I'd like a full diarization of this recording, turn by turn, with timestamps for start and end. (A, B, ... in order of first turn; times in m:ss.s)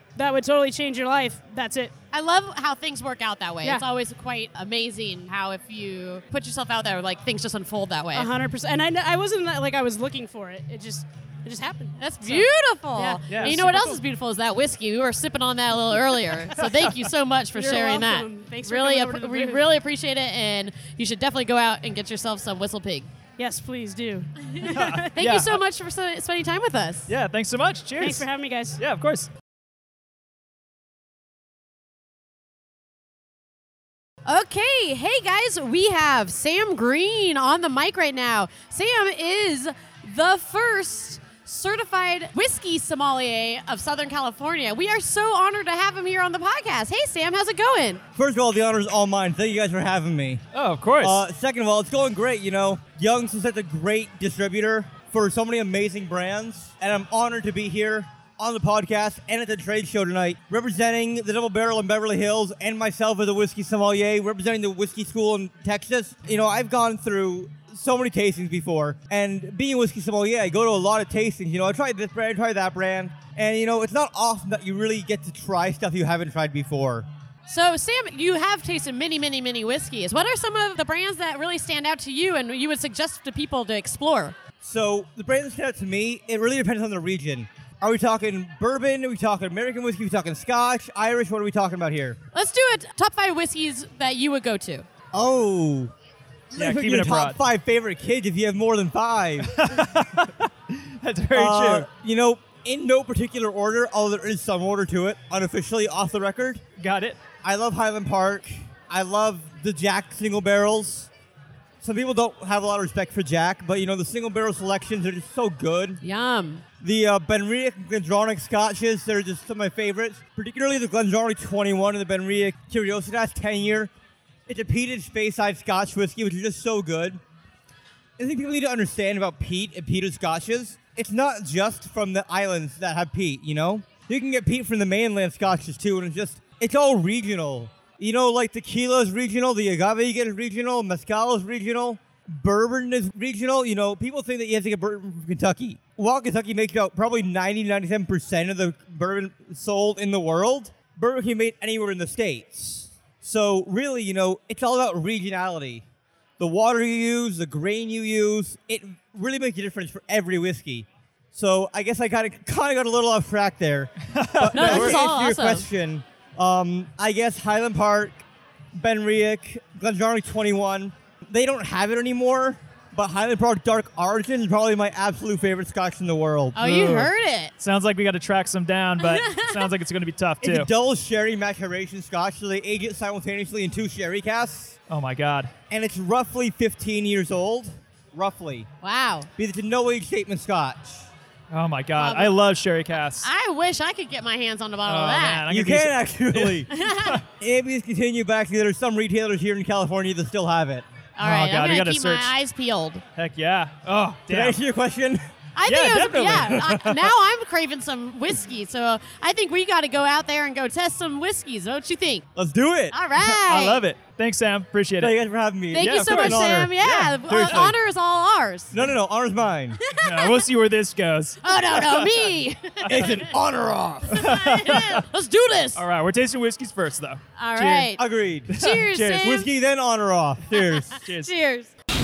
0:00.2-0:01.9 A
0:02.1-0:08.3 B
0:08.1-0:13.6 A
0:12.0-0:23.1 B
0:13.3-0:14.0 C
0:17.5-0:19.6 A
0:23.4-0:25.1 A
0:24.5-0:27.1 B
0:24.6-0:25.6 C
0:27.1-0:28.3 C
0:28.0-0:28.8 A
0:28.8-0:29.3 C
0:34.2-0:48.0 B
0:48.2-0:50.4 D
0:50.5-0:51.2 C
0:51.0-1:17.1 D
1:17.5-1:24.4 B
1:24.6-1:32.2 D
1:32.3-1:34.9 B
1:35.1-1:35.9 D
1:36.5-1:39.5 D
1:36.6-1:37.4 C
1:39.4-1:41.9 C
1:41.3-1:46.6 D
1:46.8-1:47.2 C
1:47.4-1:51.1 D
1:51.8-1:56.0 D
1:56.0-1:56.6 B
1:56.8-2:03.9 D
2:04.5-2:07.2 D
2:08.2-2:35.8 D
2:36.4-2:57.0 D
2:44.0-2:45.0 C
2:44.5-2:45.7 B
2:56.5-2:57.5 B
2:56.6-2:57.1 C
2:57.6-3:00.7 C
2:59.0-2:59.7 B
3:00.4-3:04.8 D
3:04.9-3:05.5 C
3:05.7-3:08.7 D
3:08.8-3:09.3 B
3:09.4-3:11.1 D
3:11.5-3:13.3 C
3:12.0-3:12.4 B
3:13.2-3:15.5 B
3:14.8-3:17.2 C
3:15.5-3:16.7 D
3:16.7-3:17.2 B
3:17.4-3:20.8 D
3:21.2-3:23.0 B
3:21.2-3:22.3 C
3:23.2-3:24.6 C
3:24.3-3:25.2 D
3:25.6-3:32.2 B
3:25.6-3:27.1 C
3:32.4-3:33.0 D
3:32.9-3:33.8 B
3:33.2-3:35.2 C
3:35.0-3:37.8 D
3:35.7-3:38.8 B
3:35.7-3:37.6 C
3:38.7-3:39.8 D
3:39.8-3:40.4 B
3:39.9-3:42.3 C
3:41.4-3:43.3 B
3:42.8-3:43.3 C
3:42.9-3:44.1 D
3:44.1-3:45.8 B
3:44.1-3:45.1 C
3:45.8-3:47.8 C
3:47.4-3:49.5 B
3:47.8-3:48.5 D
3:48.5-3:49.4 C
3:49.2-3:51.0 D
3:50.7-3:51.7 B
3:50.9-3:51.3 C